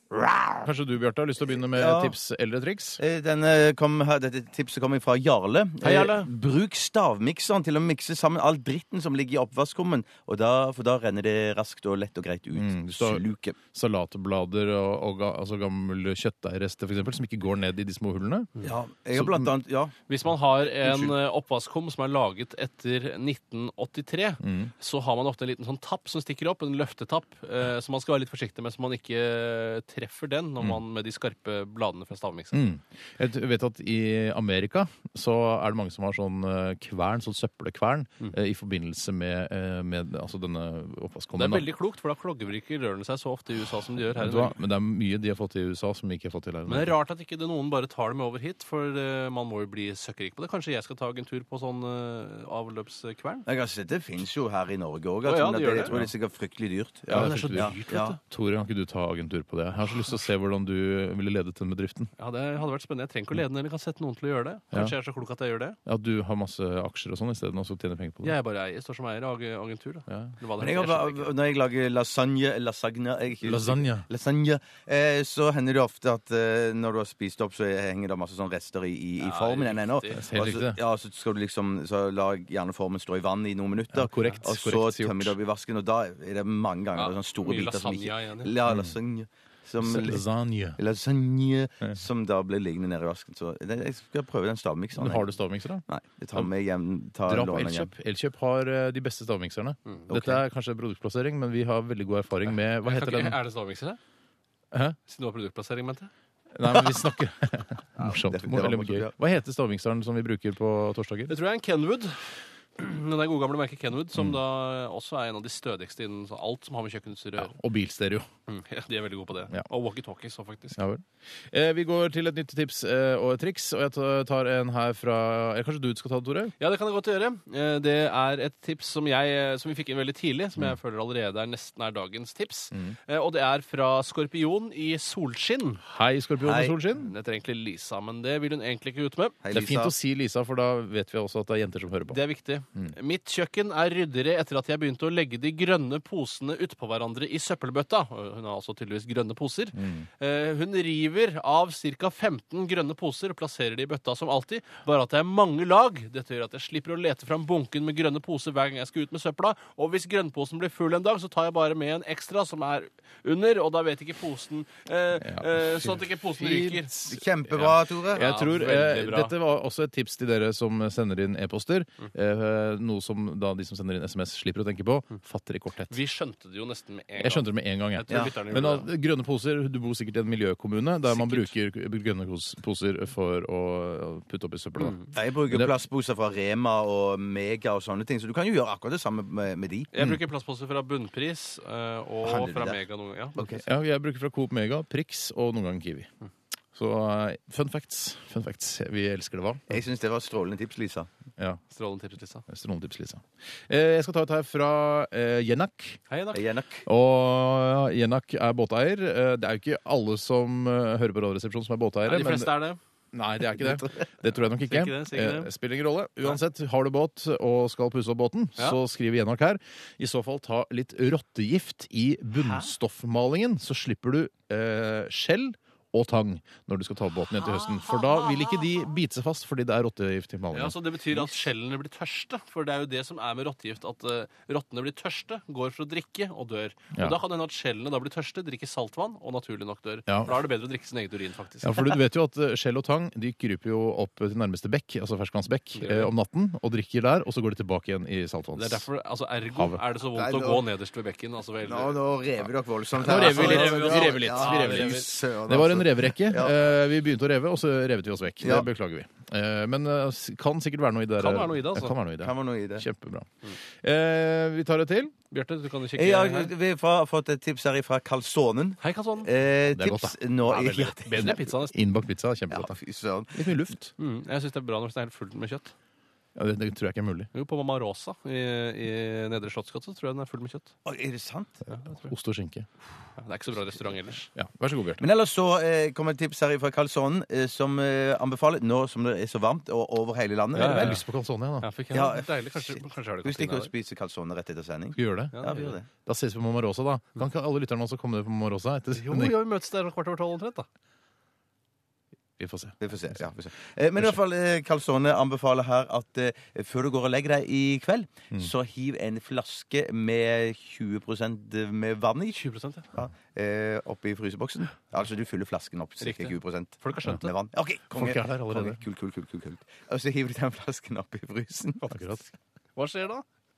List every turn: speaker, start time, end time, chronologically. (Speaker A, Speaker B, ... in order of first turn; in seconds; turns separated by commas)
Speaker A: 0.6-3.0, Speaker B: 1.7-2.1, Speaker B: 3.0-13.6, Speaker C: 5.9-6.2, Speaker A: 12.6-18.5, Speaker B: 18.6-19.9, Speaker A: 19.1-19.5, Speaker C: 20.1-32.6, Speaker B: 20.8-21.2, Speaker A: 24.4-24.7, Speaker A: 32.5-41.7, Speaker C: 41.4-44.6, Speaker A: 44.2-47.0, Speaker C: 46.7-53.5, Speaker B: 53.5-58.2, Speaker C: 55.2-56.0, Speaker A: 57.1-62.1, Speaker C: 57.1-58.2, Speaker C: 62.2-65.8, Speaker A: 65.9-68.3, Speaker C: 68.2-71.3, Speaker B: 70.6-90.2, Speaker A: 73.5-74.0, Speaker C: 79.2-80.2, Speaker A: 80.2-80.8, Speaker A: 83.9-85.3, Speaker C: 87.0-88.5, Speaker A: 88.7-88.9, Speaker A: 89.8-90.8, Speaker B: 90.8-95.3, Speaker A: 95.0-95.8, Speaker B: 95.9-97.9, Speaker A: 97.3-103.4, Speaker B: 100.1-100.4, Speaker C: 102.8-104.0, Speaker A: 104.7-105.0, Speaker C: 105.1-106.1, Speaker A: 106.5-111.3, Speaker B: 108.0-109.2, Speaker C: 111.3-112.3, Speaker C: 112.8-117.5, Speaker A: 117.4-118.3, Speaker C: 118.5-120.8, Speaker A: 120.8-126.5, Speaker C: 126.6-135.8, Speaker A: 135.9-137.1, Speaker B: 136.4-136.8, Speaker C: 137.0-139.4, Speaker B: 139.4-139.9, Speaker A: 139.5-142.2, Speaker C: 142.1-166.9, Speaker A: 149.8-150.1, Speaker A: 165.2-166.8, Speaker B: 167.0-168.3, Speaker A: 168.1-176.0, Speaker C: 168.2-169.3, Speaker C: 175.9-178.9, Speaker A: 177.2-185.0, Speaker C: 181.1-181.5, Speaker B: 185.2-189.9, Speaker C: 189.9-193.4, Speaker B: 192.2-192.8, Speaker B: 193.4-193.6, Speaker A: 193.6-196.1, Speaker A: 196.7-199.7, Speaker B: 199.7-201.1, Speaker C: 201.7-202.4, Speaker A: 202.5-206.0, Speaker C: 206.1-206.4, Speaker B: 206.3-206.8, Speaker A: 206.9-212.5, Speaker C: 212.1-212.8, Speaker A: 213.1-231.3, Speaker C: 214.7-215.5, Speaker C: 227.9-228.3, Speaker C: 230.5-242.0, Speaker A: 240.1-240.4, Speaker A: 241.6-248.9, Speaker C: 245.8-246.1, Speaker C: 248.6-252.1, Speaker A: 249.5-249.8, Speaker B: 250.1-250.7, Speaker B: 251.7-256.6, Speaker A: 253.0-265.1, Speaker C: 253.0-255.1, Speaker B: 258.4-258.7, Speaker C: 261.2-261.9, Speaker B: 262.2-262.9, Speaker C: 265.3-266.5, Speaker B: 266.0-271.4, Speaker C: 268.8-269.3, Speaker A: 269.7-272.8, Speaker C: 271.1-271.7, Speaker B: 272.5-273.4, Speaker A: 273.3-273.9, Speaker C: 274.0-275.7, Speaker A: 276.4-277.3, Speaker C: 277.3-280.7, Speaker B: 280.9-281.6, Speaker C: 281.7-282.1, Speaker A: 281.9-282.7, Speaker C: 283.2-284.3, Speaker A: 284.4-285.0, Speaker B: 285.0-291.0, Speaker C: 290.6-291.0, Speaker A: 290.6-291.7, Speaker C: 291.6-293.7, Speaker B: 291.9-295.9, Speaker A: 295.0-295.3, Speaker C: 295.3-295.7, Speaker A: 296.1-299.4, Speaker C: 298.9-300.7, Speaker A: 302.4-302.8, Speaker B: 302.8-321.8, Speaker C: 312.4-312.9, Speaker C: 316.0-317.3, Speaker A: 318.0-318.8, Speaker A: 321.9-322.2, Speaker C: 322.8-323.2